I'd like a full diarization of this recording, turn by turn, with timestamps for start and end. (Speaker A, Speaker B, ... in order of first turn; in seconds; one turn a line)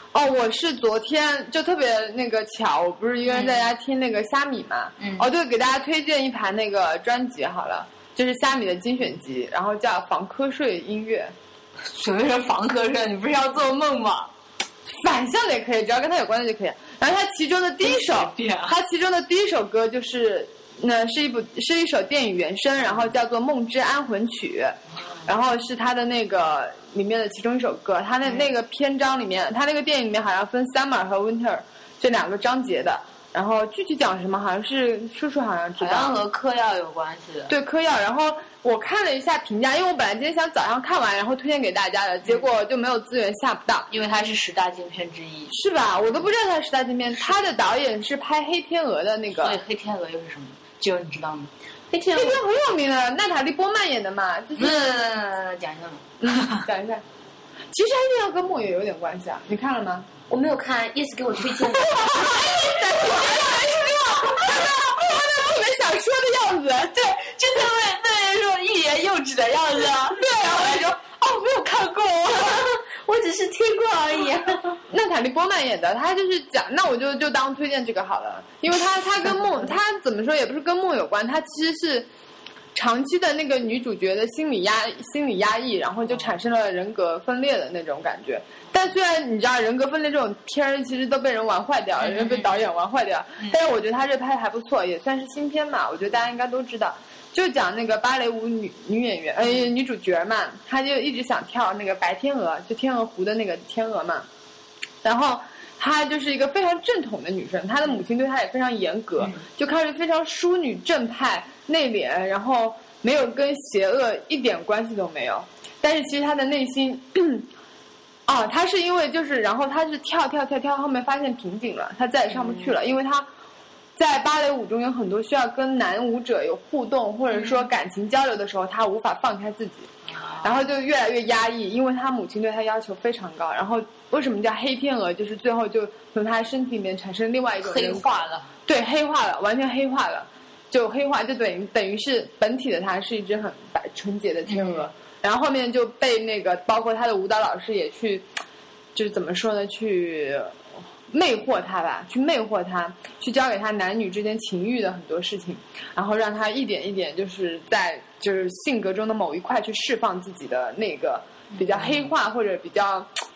Speaker A: 0.1-11.3
Speaker B: 3.3-3.7
Speaker B: 5.0-5.3
Speaker B: 11.8-14.3
Speaker A: 14.9-36.2
Speaker B: 17.8-18.8
Speaker B: 35.8-37.5
Speaker A: 37.5-43.9
Speaker B: 43.9-45.5
Speaker A: 45.5-49.6
Speaker B: 49.4-51.5
Speaker C: 51.9-52.4
Speaker A: 52.1-54.8
Speaker B: 54.5-56.7
Speaker A: 56.2-57.0
Speaker A: 57.7-60.1
Speaker C: 60.3-63.4
Speaker A: 61.6-67.0
Speaker B: 67.0-72.0
Speaker A: 70.1-72.4
Speaker C: 72.3-74.8
Speaker A: 74.9-82.1
Speaker A: 82.7-104.3
Speaker B: 92.0-92.6
Speaker A: 105.0-117.5
Speaker A: 118.2-123.3
Speaker A: 124.0-129.9
Speaker B: 127.3-127.7
Speaker B: 130.1-130.6
Speaker A: 130.4-148.2
Speaker B: 137.6-138.5
Speaker B: 144.4-144.9
Speaker A: 148.9-150.5
Speaker A: 151.1-163.1
Speaker B: 161.5-162.1